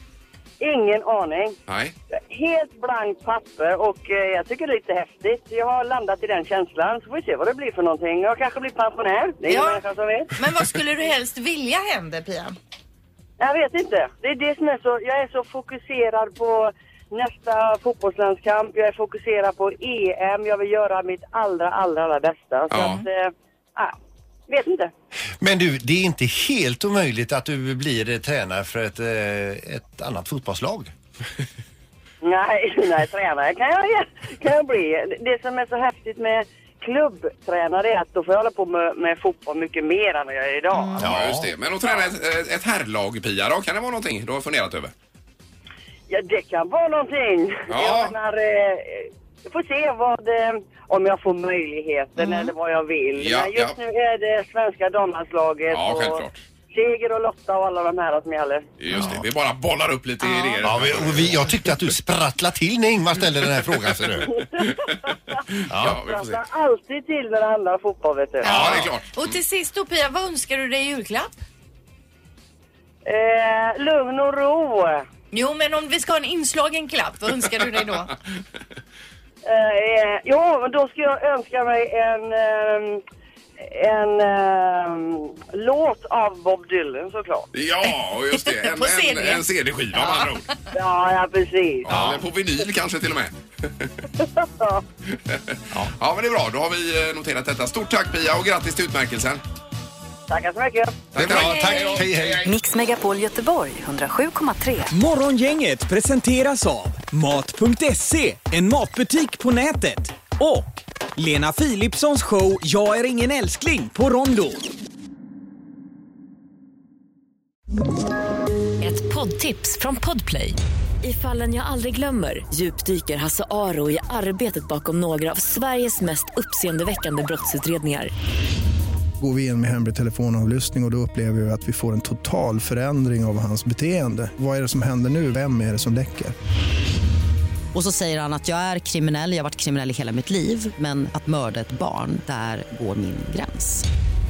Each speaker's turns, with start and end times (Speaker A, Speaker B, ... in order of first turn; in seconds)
Speaker A: 0.6-1.6, 2.1-10.3, 13.4-24.0, 24.5-24.9, 32.2-41.1, 41.8-42.1, 46.1-56.2, 56.7-58.7, 64.2-68.6, 73.1-75.1, 79.4-83.0, 83.6-87.5, 90.7-92.2, 94.1-94.8, 100.3-101.1
Speaker B: 1.7-1.9, 22.7-23.1, 41.0-44.9, 47.7-48.1, 53.2-53.8, 55.7-56.4, 58.8-61.7, 64.2-64.8, 65.5-66.4, 68.5-69.3, 87.5-90.5, 91.9-93.9, 95.3-99.4, 101.1-102.4
Speaker C: 9.4-12.6, 40.7-41.0, 52.2-52.5, 60.2-60.6, 68.4-71.4, 75.3-78.1, 88.3-90.2
Speaker D: 25.4-30.9, 41.0-41.5, 60.6-64.3, 65.7-66.0, 68.5-68.9, 101.1-102.5
Speaker E: 101.3-104.9, 118.8-128.1
Speaker F: 104.9-114.5
Speaker G: 129.2-136.3
Speaker H: 137.7-143.9